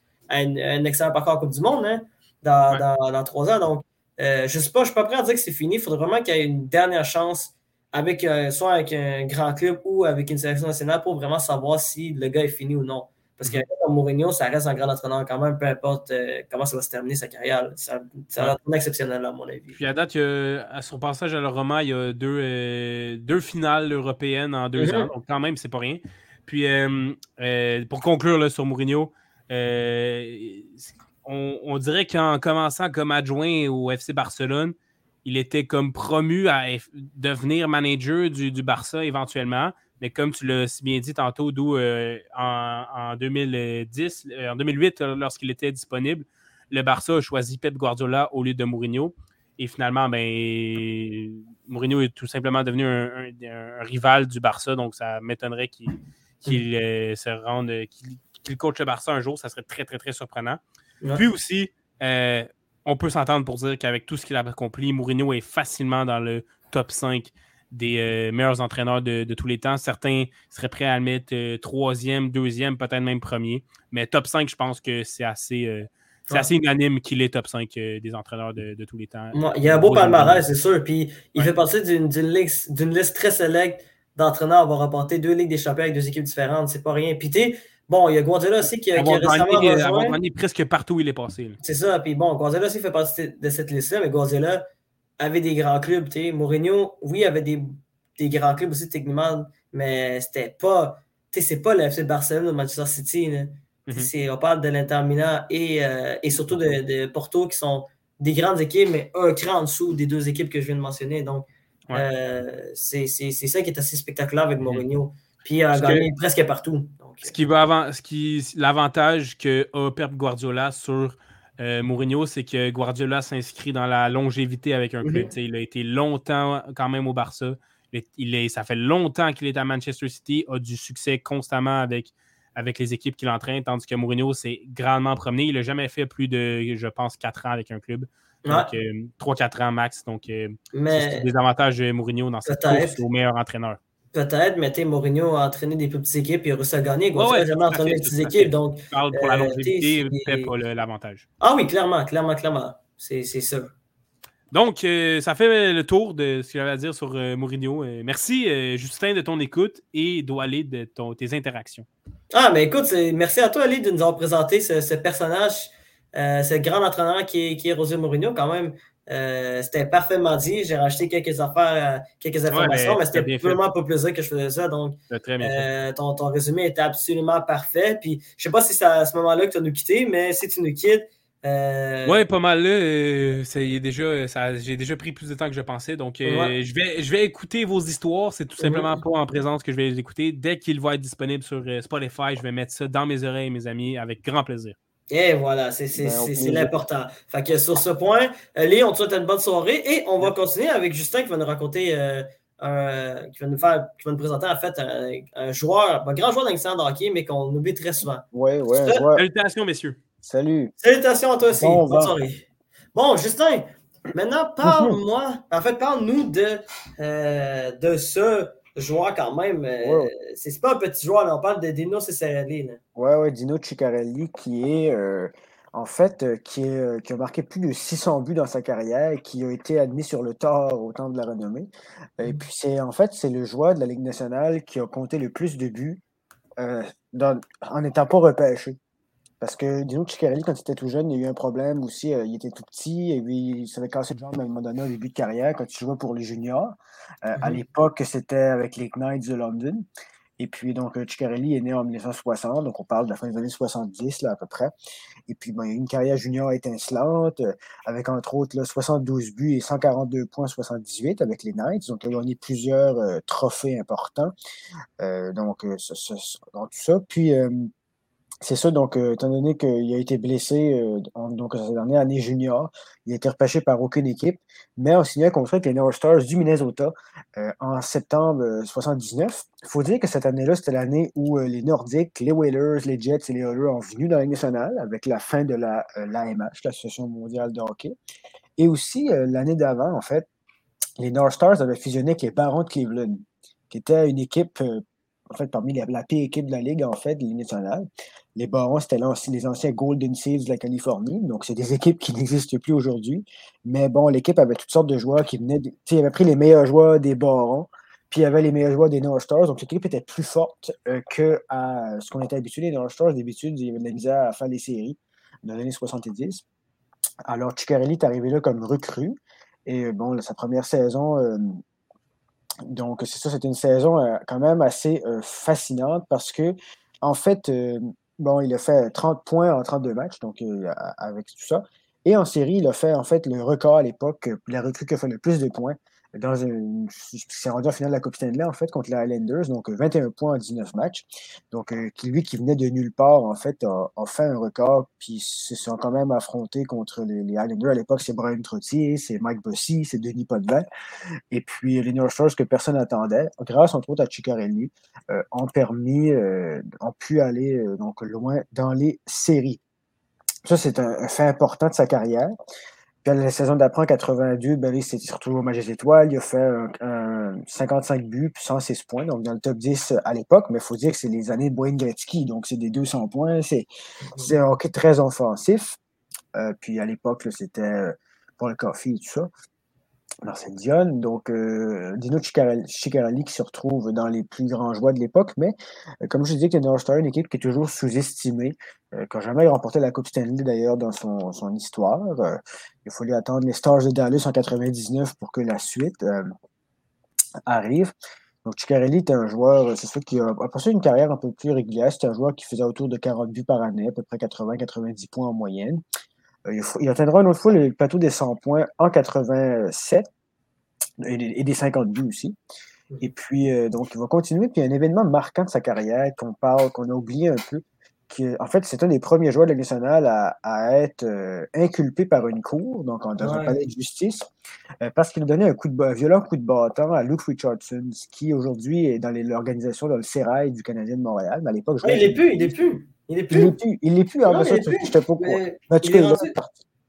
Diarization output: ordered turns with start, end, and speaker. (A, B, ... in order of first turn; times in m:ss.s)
0:00.3-0:19.8 A
0:19.7-0:34.7 B
0:24.8-0:25.1 A
0:35.2-1:00.6 B
1:01.2-1:20.4 B
1:19.3-1:30.2 A
1:28.9-1:31.6 B
1:31.6-1:34.6 A
1:35.2-1:57.3 A
1:55.7-1:56.1 B
1:57.2-2:23.8 B
2:05.0-2:05.3 A
2:18.4-2:18.7 A
2:20.7-2:21.2 A
2:22.4-2:23.0 A
2:24.1-2:30.5 A
2:27.1-2:31.2 B
2:31.4-2:33.7 A
2:34.5-2:41.9 B
2:42.3-3:02.2 A
2:52.5-2:53.6 B
2:55.1-2:55.7 B
3:02.0-3:14.8 B
3:06.2-3:06.5 A
3:08.6-3:09.0 A
3:15.1-3:28.2 A
3:16.0-3:16.7 C
3:28.3-3:29.2 C
3:29.2-3:30.0 B
3:30.2-3:30.7 C
3:30.8-3:42.8 A
3:31.5-3:32.2 C
3:34.6-3:35.0 C
3:39.8-3:40.1 C
3:43.0-3:56.0 C
3:56.6-3:58.8 C
3:59.4-4:09.8 C
4:10.4-4:14.7 C
4:15.3-4:24.3 C
4:25.0-4:27.7 C
4:28.4-4:47.9 C
4:48.6-4:50.2 C
4:51.0-4:57.8 C
4:58.4-5:16.4 C
5:17.2-5:21.6 C
5:22.6-5:50.6 C
5:51.3-5:59.6 C
6:00.4-6:02.3 C
6:03.0-6:13.7 C
6:14.0-6:14.3 A
6:14.2-6:15.8 C
6:16.4-6:19.3 C
6:20.2-6:25.5 C
6:26.0-6:36.3 C
6:37.5-6:37.9 C
6:38.4-6:45.8 C
6:46.5-6:50.0 C
6:51.0-6:52.4 C
6:53.0-7:04.3 C
7:03.2-7:03.6 A
7:04.8-7:12.6 C
7:11.8-7:13.6 A
7:13.3-7:16.6 C
7:14.2-7:16.3 A